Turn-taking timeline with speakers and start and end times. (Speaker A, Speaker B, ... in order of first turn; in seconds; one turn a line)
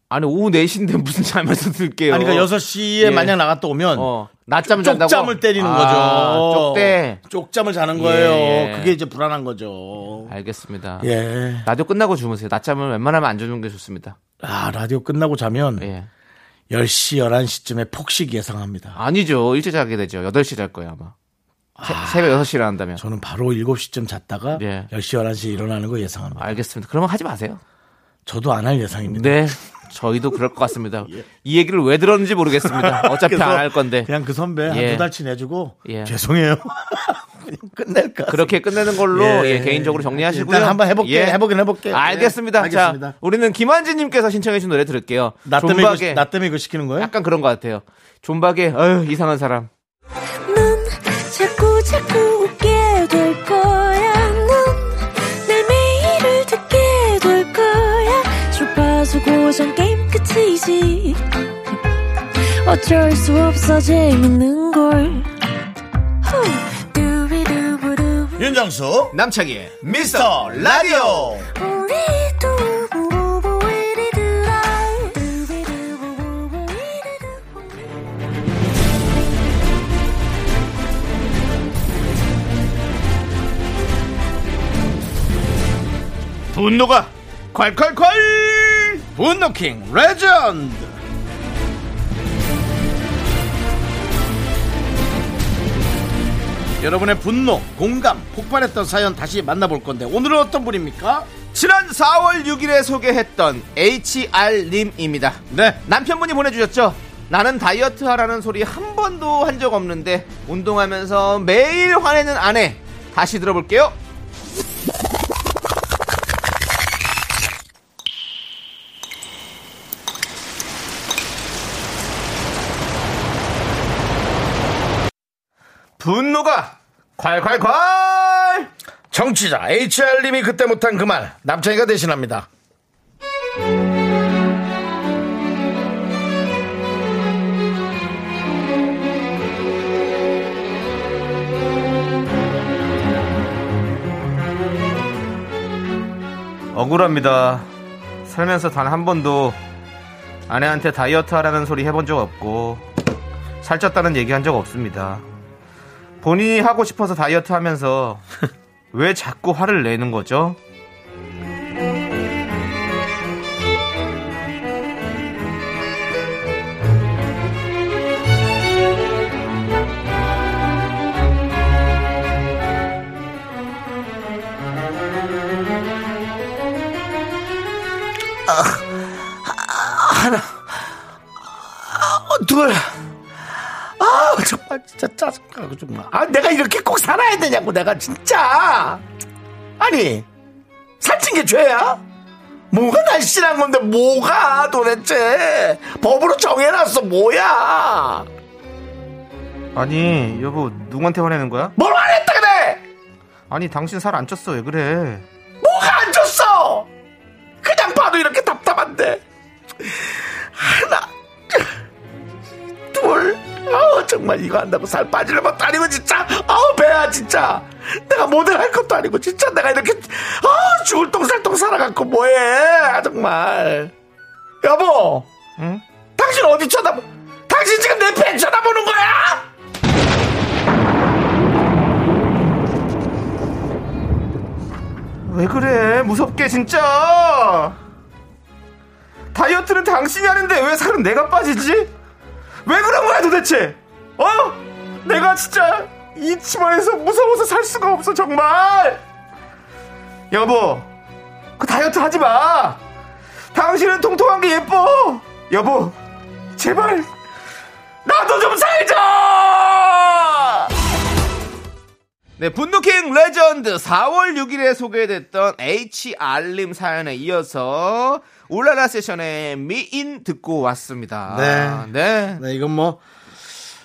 Speaker A: 0.1-3.4
Speaker B: 2.1-4.1
Speaker A: 3.9-7.2
Speaker B: 4.6-10.3
Speaker A: 7.9-9.0
Speaker A: 10.3-11.1
Speaker B: 11.0-11.7
Speaker A: 11.6-14.2
Speaker B: 14.4-15.9
Speaker A: 15.8-16.1
Speaker B: 16.7-19.0
Speaker A: 18.9-21.1
Speaker B: 21.8-26.6
Speaker A: 21.8-23.0
Speaker A: 24.5-24.9
Speaker A: 26.4-27.6
Speaker B: 28.2-29.5
Speaker A: 29.1-34.1
Speaker B: 32.6-43.1
Speaker A: 34.7-35.1
Speaker A: 35.8-36.1
Speaker A: 38.3-46.2
Speaker B: 45.4-47.1
Speaker A: 47.0-49.7
Speaker C: 50.5-61.7
Speaker C: 62.6-65.3
Speaker C: 66.2-68.5
Speaker B: 68.4-69.2
Speaker A: 69.1-71.4
Speaker B: 69.8-71.5
Speaker C: 71.5-77.7
Speaker A: 86.5-89.0
Speaker B: 89.1-90.9
Speaker B: 96.8-101.3
Speaker A: 101.5-114.0
Speaker B: 105.5-105.8
Speaker A: 126.0-128.7
Speaker B: 129.1-132.5
Speaker A: 146.7-147.7
Speaker A: 148.2-149.6
Speaker A: 150.5-152.8
Speaker A: 153.6-155.2
Speaker A: 156.2-158.2
Speaker A: 158.9-160.6
Speaker B: 178.5-180.8
Speaker B: 181.4-183.0
Speaker B: 183.5-189.0
Speaker B: 189.8-190.3
Speaker B: 191.0-192.0
Speaker B: 192.7-198.3
Speaker A: 199.7-201.7
Speaker B: 201.8-202.8
Speaker A: 203.5-205.2
Speaker B: 205.6-206.9
Speaker B: 207.6-209.2
Speaker B: 209.8-211.7
Speaker B: 212.9-223.9
Speaker B: 224.6-225.3
Speaker B: 226.2-229.4
Speaker A: 235.2-237.8
Speaker A: 239.3-241.9
Speaker A: 242.6-249.0
Speaker A: 250.3-250.8
Speaker A: 251.6-252.8
Speaker A: 253.5-255.9
Speaker A: 256.6-257.1
Speaker A: 258.0-260.7
Speaker A: 262.4-272.4
Speaker B: 271.3-273.6